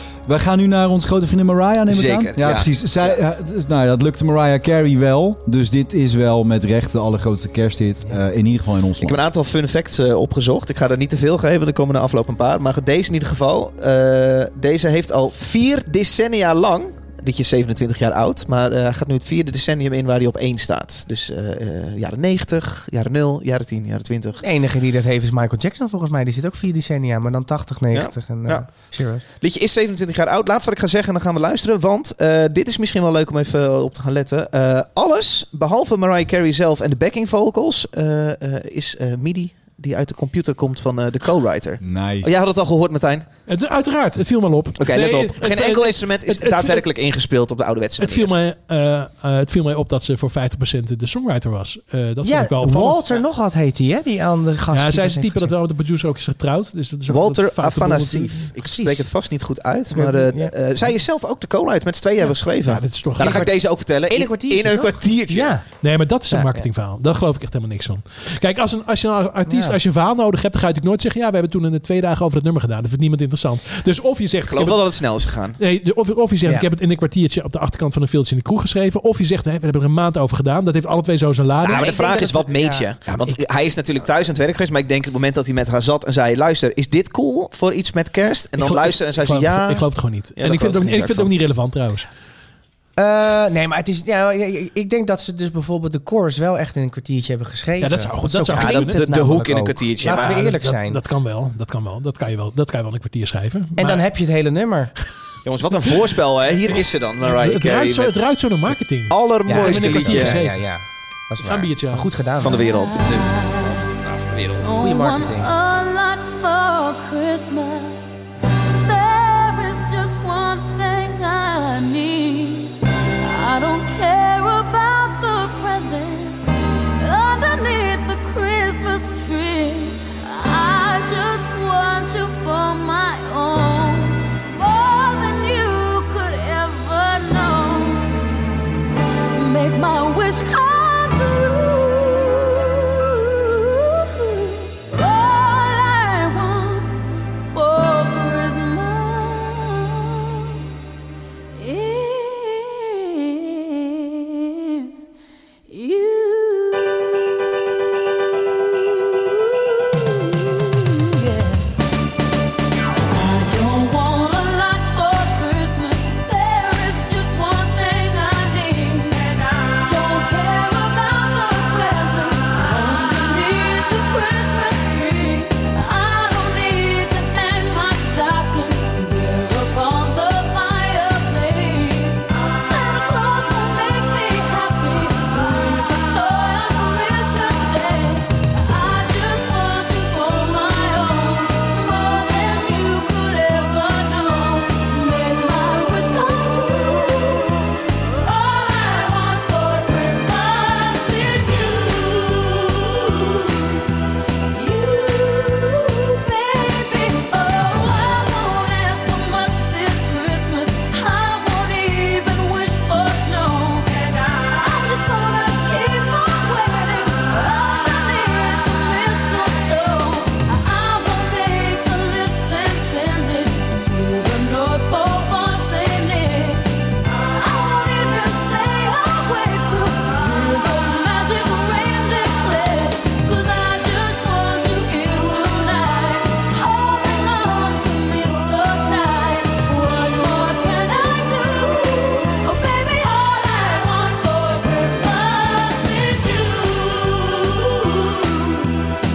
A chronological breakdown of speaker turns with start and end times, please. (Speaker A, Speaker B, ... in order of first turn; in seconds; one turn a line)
Speaker A: 0.2-9.2
Speaker B: 1.9-3.2
Speaker B: 9.0-24.4
Speaker C: 24.4-29.2
Speaker B: 27.9-43.2
Speaker A: 41.8-42.3
Speaker D: 43.5-46.9
Speaker B: 44.8-48.3
Speaker D: 48.0-53.0
Speaker C: 52.2-55.5
Speaker D: 54.7-58.5
Speaker B: 57.1-65.5
Speaker C: 58.6-59.1
Speaker C: 59.9-60.5
Speaker D: 62.6-63.5
Speaker C: 63.2-65.7
Speaker D: 65.8-74.8
Speaker C: 66.3-66.7
Speaker C: 69.5-69.8
Speaker B: 74.5-75.6
Speaker D: 75.6-81.9
Speaker B: 81.6-89.8
Speaker C: 81.7-83.2
Speaker D: 88.6-92.1
Speaker B: 90.4-91.3
Speaker C: 93.0-101.0
Speaker D: 97.8-99.0
Speaker B: 98.5-100.5
Speaker D: 100.0-104.0
Speaker C: 103.8-104.9
Speaker B: 105.4-108.2
Speaker D: 107.2-110.7
Speaker B: 109.1-110.4
Speaker C: 109.4-112.7
Speaker D: 111.4-112.1
Speaker B: 112.4-114.7
Speaker E: 112.6-113.9
Speaker E: 114.6-138.2
Speaker C: 114.8-115.5
Speaker E: 139.3-150.6
Speaker E: 151.5-155.1
Speaker E: 155.7-161.7
Speaker E: 163.1-203.8
Speaker E: 204.5-248.7